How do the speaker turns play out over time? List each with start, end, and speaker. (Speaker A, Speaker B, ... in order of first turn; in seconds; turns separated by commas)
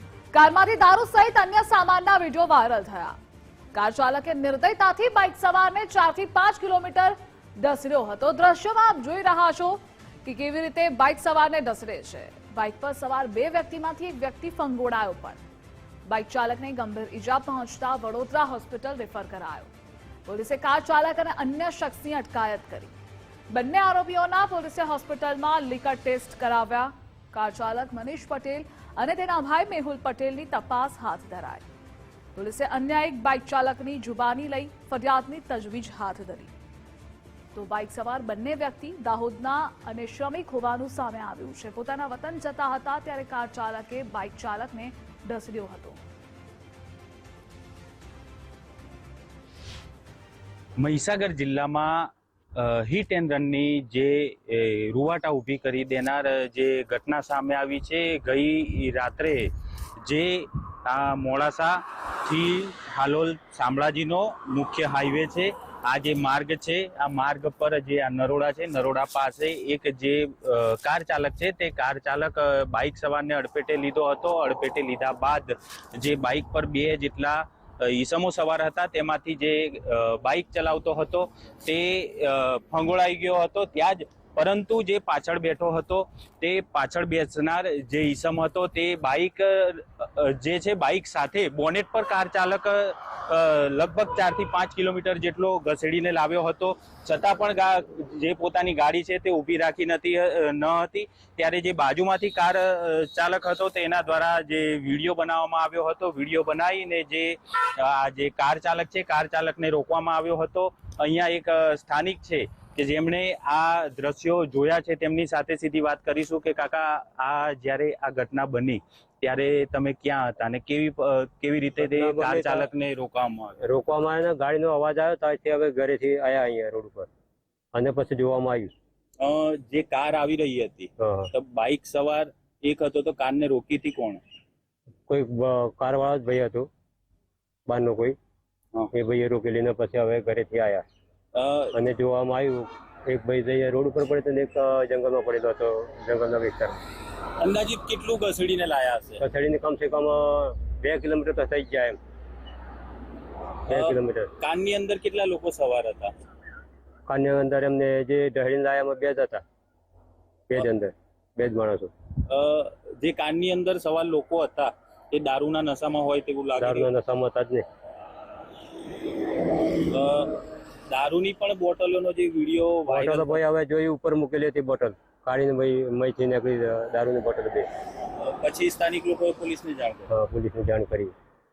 Speaker A: 0.3-3.2, Speaker A: 3.7-15.4, Speaker A: 16.1-19.7, Speaker A: 20.3-22.9, Speaker A: 23.5-31.6, Speaker A: 32.4-36.5, Speaker A: 37.5-46.0, Speaker B: 50.8-59.5, Speaker B: 60.0-123.6, Speaker C: 121.8-122.7, Speaker C: 123.6-127.1, Speaker C: 127.7-128.7, Speaker B: 129.2-134.2, Speaker C: 131.0-131.3, Speaker C: 135.1-136.7, Speaker C: 137.7-138.2, Speaker C: 138.9-140.8, Speaker B: 141.3-141.7, Speaker C: 141.7-146.8, Speaker B: 147.4-149.2, Speaker C: 149.2-152.0, Speaker B: 153.7-156.1, Speaker C: 153.7-154.3, Speaker C: 157.1-159.4, Speaker C: 160.5-161.9, Speaker B: 162.3-166.9, Speaker C: 166.6-167.7, Speaker B: 169.8-173.4, Speaker C: 172.9-177.7, Speaker B: 178.2-180.1, Speaker C: 180.1-181.1